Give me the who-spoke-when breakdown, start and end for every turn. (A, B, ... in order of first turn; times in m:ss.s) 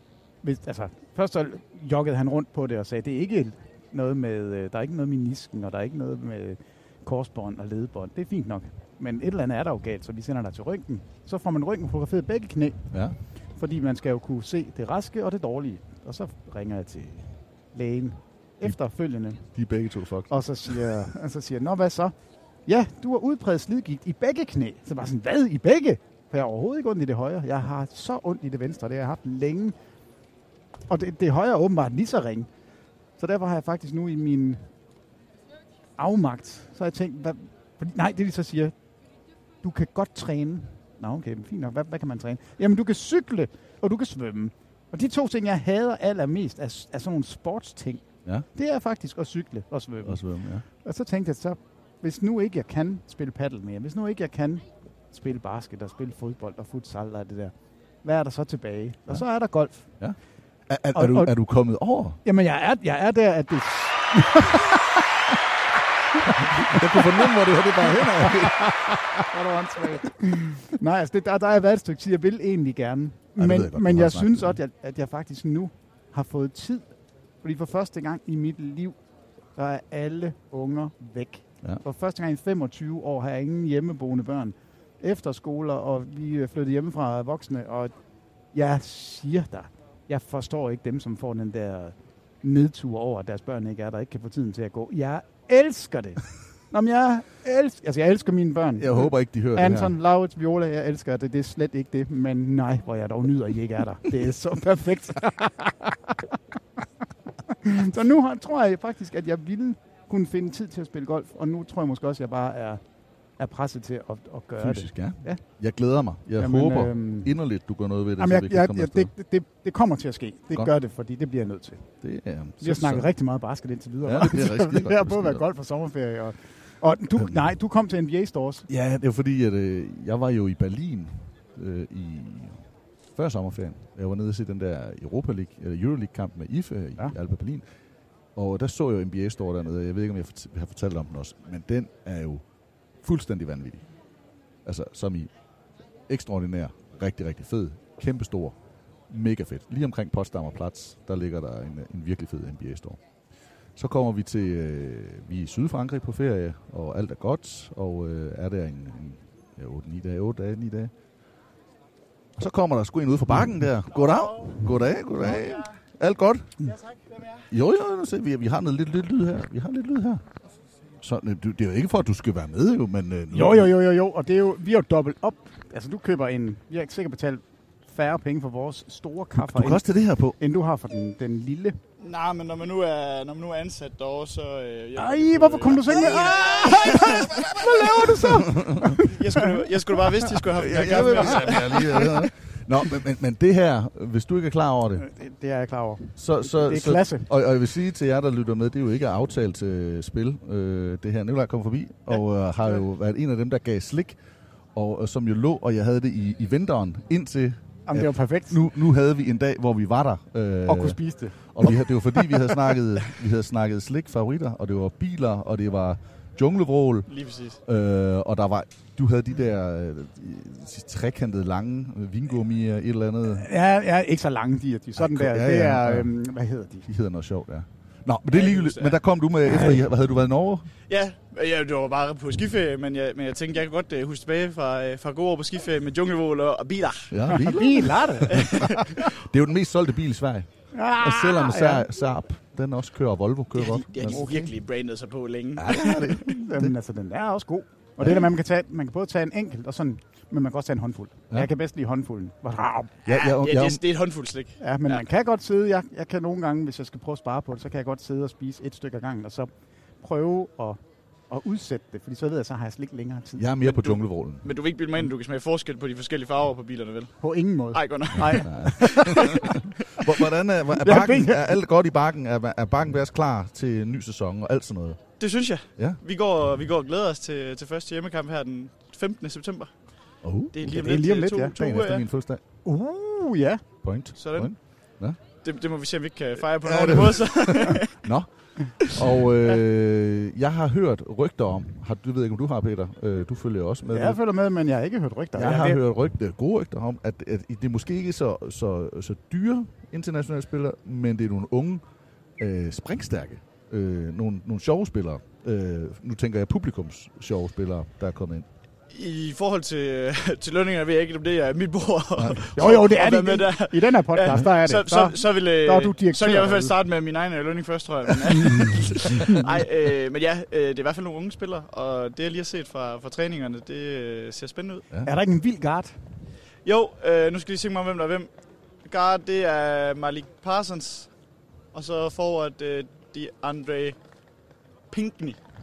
0:00.4-0:12.9 A
0:13.6-0:19.4 A
0:19.5-0:20.7 B
0:20.3-0:22.1 A
0:22.7-0:29.8 A
0:30.9-0:32.5 A
0:33.2-0:34.6 A
0:36.0-0:38.7 A
0:39.6-0:50.2 A
0:50.0-0:50.6 B
0:50.7-0:57.5 A
0:58.0-0:59.9 A
1:00.7-1:02.2 B
1:00.9-1:01.3 A
1:02.2-1:05.1 A
1:06.1-1:07.3 A
1:06.4-1:08.8 B
1:07.9-1:16.9 A
1:13.4-1:14.6 B
1:17.4-1:19.0 A
1:19.6-1:27.9 A
1:28.5-1:46.2 A
1:38.8-1:40.0 B
1:47.5-1:52.8 A
1:53.4-1:55.4 A
1:54.6-1:59.1 B
1:56.4-1:57.4 A
1:58.2-2:01.9 A
2:02.0-2:03.1 B
2:02.6-2:08.7 A
2:04.0-2:05.4 B
2:07.2-2:07.5 B
2:08.7-2:17.6 B
2:18.4-2:22.4 B
2:23.0-2:23.8 B
2:24.6-2:25.3 B
2:26.1-2:28.6 B
2:29.1-2:33.0 B
2:33.8-2:40.9 B
2:42.4-2:46.6 B
2:47.5-2:50.2 B
2:51.0-2:53.8 B
2:53.3-2:59.8 A
2:59.4-3:00.4 B
3:00.4-3:01.8 A
3:02.0-3:07.5 C
3:05.0-3:09.5 A
3:07.1-3:09.0 B
3:09.0-3:12.3 C
3:10.5-3:15.1 B
3:11.0-3:11.5 A
3:15.0-3:17.3 A
3:16.2-3:24.2 B
3:24.8-3:31.0 B
3:27.9-3:28.6 A
3:30.7-3:31.7 A
3:31.5-3:37.1 B
3:37.1-3:37.6 C
3:37.6-3:43.5 B
3:43.3-3:46.9 A
3:45.0-3:46.1 B
3:46.9-3:50.7 B
3:48.3-3:49.0 C
3:50.9-3:57.2 C
3:57.1-4:04.2 B
3:57.3-3:59.0 A
3:58.3-3:58.8 C
4:00.7-4:01.8 A
4:03.5-4:06.3 C
4:04.1-4:04.5 A
4:05.6-4:06.7 B
4:06.2-4:13.0 A
4:13.1-4:13.8 B
4:13.1-4:15.0 C
4:14.6-4:23.5 A
4:23.4-4:24.4 B
4:23.7-4:27.2 C
4:27.2-4:29.6 A
4:27.7-4:29.2 C
4:28.2-4:35.0 B
4:30.8-4:31.6 A
4:35.2-4:39.7 C
4:40.2-4:41.0 B
4:40.5-4:42.0 C
4:40.7-4:41.6 A
4:41.5-4:42.4 B
4:42.6-4:43.6 A
4:43.8-4:45.2 B
4:44.2-4:44.5 C
4:45.4-4:48.0 C
4:46.6-4:54.2 B
4:53.9-4:55.8 A
4:55.3-5:01.8 B
5:02.4-5:08.5 B
5:08.9-5:24.9 C
5:12.2-5:12.6 B
5:12.6-5:16.7 A
5:25.0-5:26.0 A
5:26.6-5:28.3 C
5:28.9-5:31.1 C
5:31.7-5:34.0 C
5:34.9-5:35.4 C